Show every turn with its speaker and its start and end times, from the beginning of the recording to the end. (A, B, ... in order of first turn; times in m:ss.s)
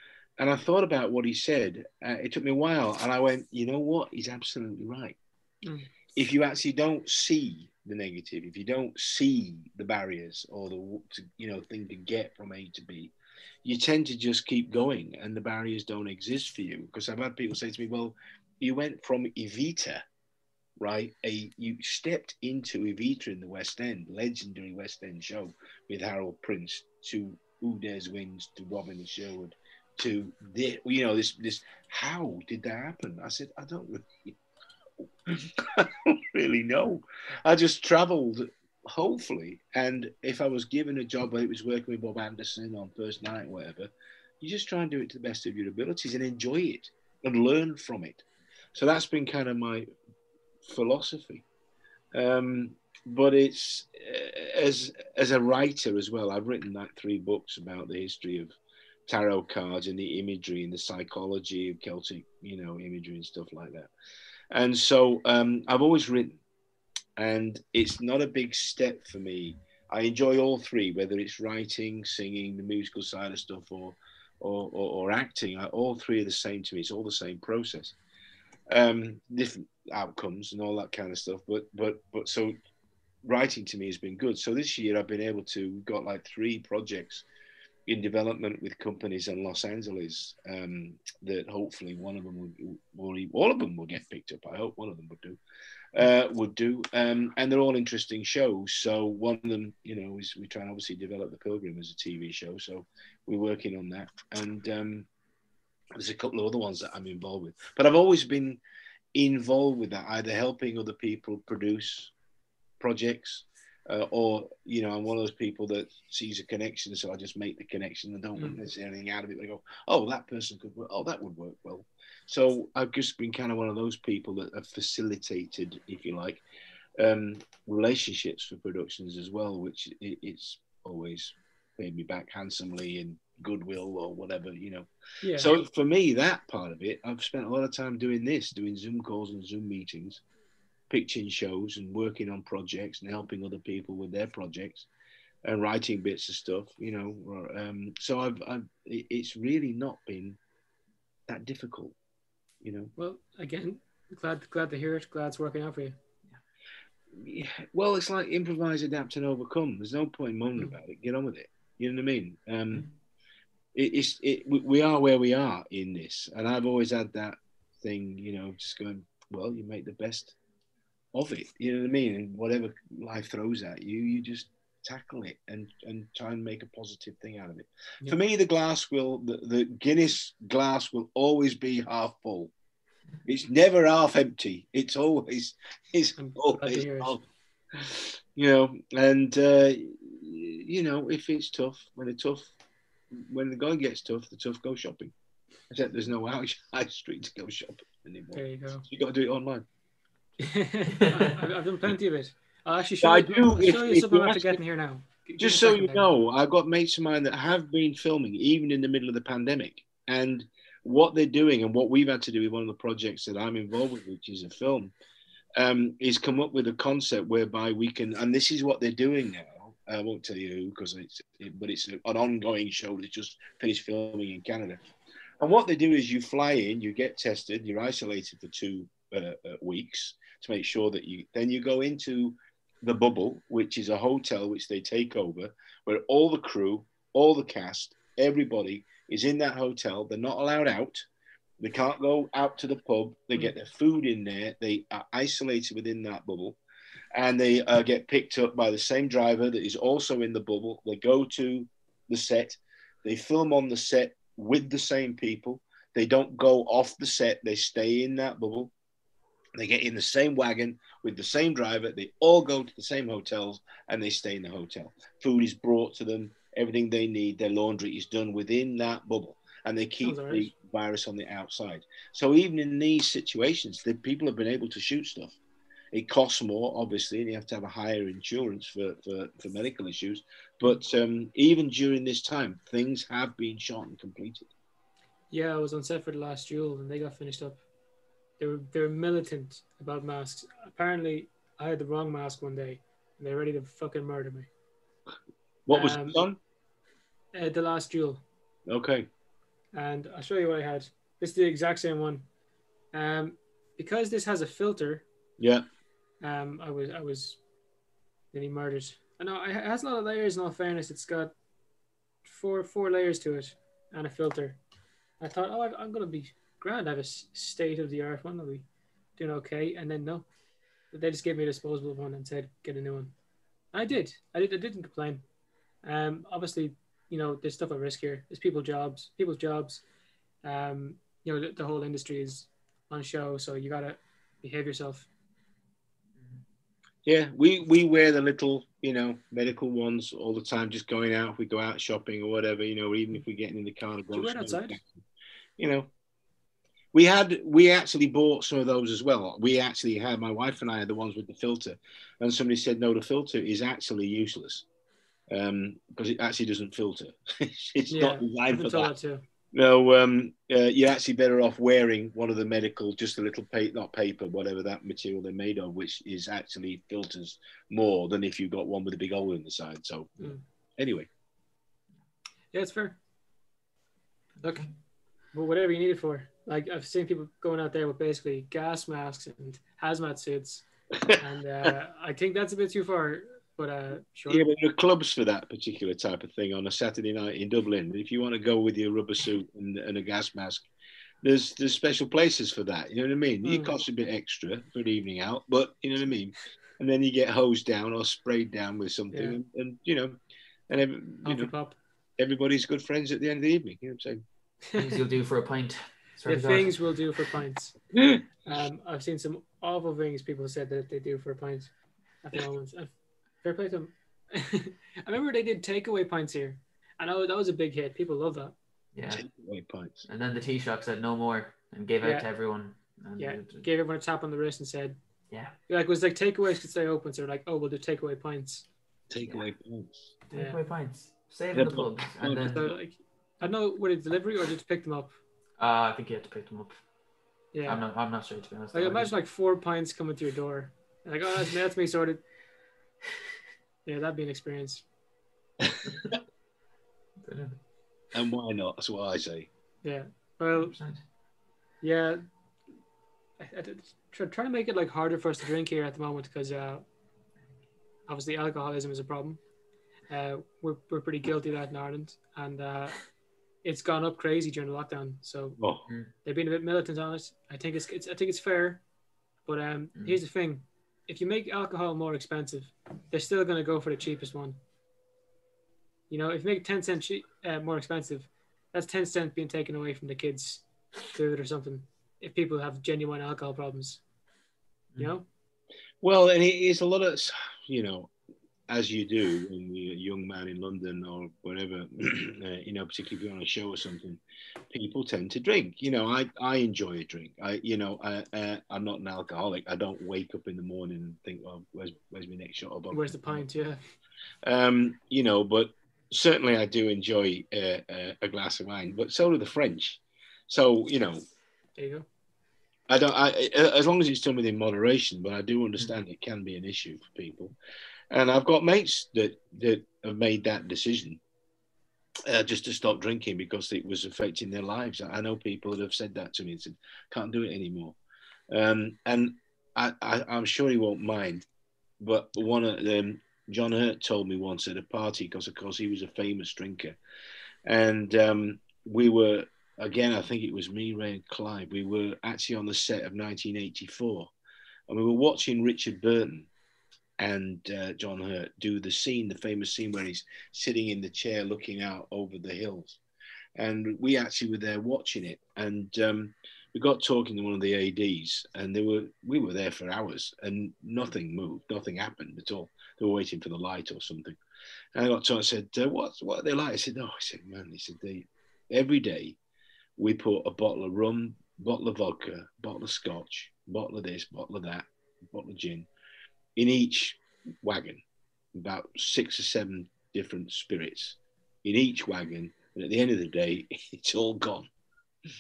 0:00.4-0:05.2 A
0:05.6-0:05.9 B
0:06.2-0:13.1 A
0:13.6-0:20.0 A
0:20.8-0:34.4 A
0:35.2-0:49.8 A
0:50.6-0:51.4 A
0:52.1-0:58.6 A
0:59.1-1:03.9 A
1:04.5-1:06.4 A
1:07.2-1:18.0 A
1:18.7-1:22.6 A
1:23.2-1:27.2 A
1:27.9-1:35.4 A
1:35.9-1:45.1 A
1:46.0-1:48.6 A
1:49.1-1:52.1 A
1:52.8-2:06.4 A
2:07.0-2:20.2 A
2:15.2-2:15.5 B
2:20.9-2:24.9 A
2:25.4-2:30.4 A
2:31.3-2:32.0 A
2:32.6-2:32.9 A
2:33.0-2:36.0 B
2:37.2-2:42.9 A
2:43.8-2:50.4 A
2:51.1-3:02.5 A
3:03.3-3:12.5 A
3:06.2-3:07.2 B
3:13.1-3:15.1 A
3:15.7-3:19.7 A
3:18.3-3:18.9 B
3:20.4-3:26.1 B
3:21.0-3:21.3 C
3:23.0-3:24.6 A
3:25.4-3:34.9 A
3:35.6-3:44.8 A
3:45.4-4:01.1 A
4:01.6-4:06.6 A
4:07.2-4:18.7 A
4:19.6-4:35.4 A
4:30.0-4:30.5 B
4:35.9-4:44.5 A
4:45.3-4:47.6 B
4:48.4-4:54.5 B
4:55.7-4:56.4 A
4:55.7-4:56.3 B
4:57.3-4:58.2 B
4:58.7-4:59.1 A
4:59.7-5:02.3 B
5:02.9-5:05.1 B
5:05.4-5:05.7 A
5:06.2-5:07.4 B
5:08.3-5:11.3 B
5:12.2-5:14.6 B
5:15.2-5:18.7 B
5:19.2-5:20.3 B
5:20.9-5:23.1 B
5:23.7-5:25.2 B
5:25.8-5:29.8 B
5:30.4-5:35.1 B
5:37.0-5:45.0 A
5:44.1-5:44.8 B
5:45.6-5:45.9 A
5:46.9-5:54.6 A
5:55.3-5:58.9 A
5:57.9-5:59.2 B
5:59.5-6:11.1 A
6:12.5-6:13.0 B
6:14.4-6:14.7 C
6:15.3-6:24.5 B
6:24.3-6:30.7 A
6:31.2-6:40.2 A
6:33.4-6:33.8 B
6:39.1-6:39.4 B
6:40.7-6:41.5 A
6:41.2-6:41.8 B
6:42.2-6:44.2 A
6:44.8-6:46.8 C
6:46.3-6:47.8 B
6:47.9-6:48.2 A
6:48.5-6:51.7 B
6:52.2-6:52.9 B
6:53.4-6:58.6 B
6:59.0-6:59.3 C
6:59.1-7:00.1 A
7:00.1-7:03.7 C
7:02.0-7:02.3 B
7:03.2-7:05.0 B
7:05.7-7:08.7 B
7:09.1-7:10.1 A
7:10.3-7:12.7 C
7:10.3-7:10.6 B
7:11.5-7:12.8 A
7:12.5-7:15.2 B
7:15.6-7:16.8 C
7:17.5-7:17.9 B
7:17.7-7:19.2 C
7:18.7-7:22.2 B
7:23.8-7:24.8 B
7:27.2-7:27.6 C
7:28.1-7:29.5 A
7:29.8-7:30.8 B
7:30.5-7:31.0 C
7:31.8-7:32.2 B
7:33.4-7:36.9 B
7:38.1-7:39.4 B
7:40.1-7:43.0 B
7:43.6-7:45.6 B
7:45.6-7:45.8 A
7:46.2-7:48.8 B
7:49.5-7:54.6 B
7:50.0-7:50.2 C
7:56.1-8:04.0 B
8:05.0-8:05.2 B
8:06.0-8:08.1 A
8:08.7-8:23.4 A
8:22.9-8:23.8 B
8:24.4-8:31.2 A
8:31.8-8:32.1 B
8:32.9-8:37.6 A
8:38.1-8:41.2 A
8:42.3-8:48.0 A
8:48.5-8:51.4 A
8:52.0-8:57.0 A
8:57.6-9:04.3 A
9:04.9-9:06.5 A
9:07.2-9:13.0 A
9:13.6-9:24.4 A
9:25.0-9:29.4 A
9:30.0-9:35.9 A
9:36.6-9:38.0 A
9:38.5-9:44.7 A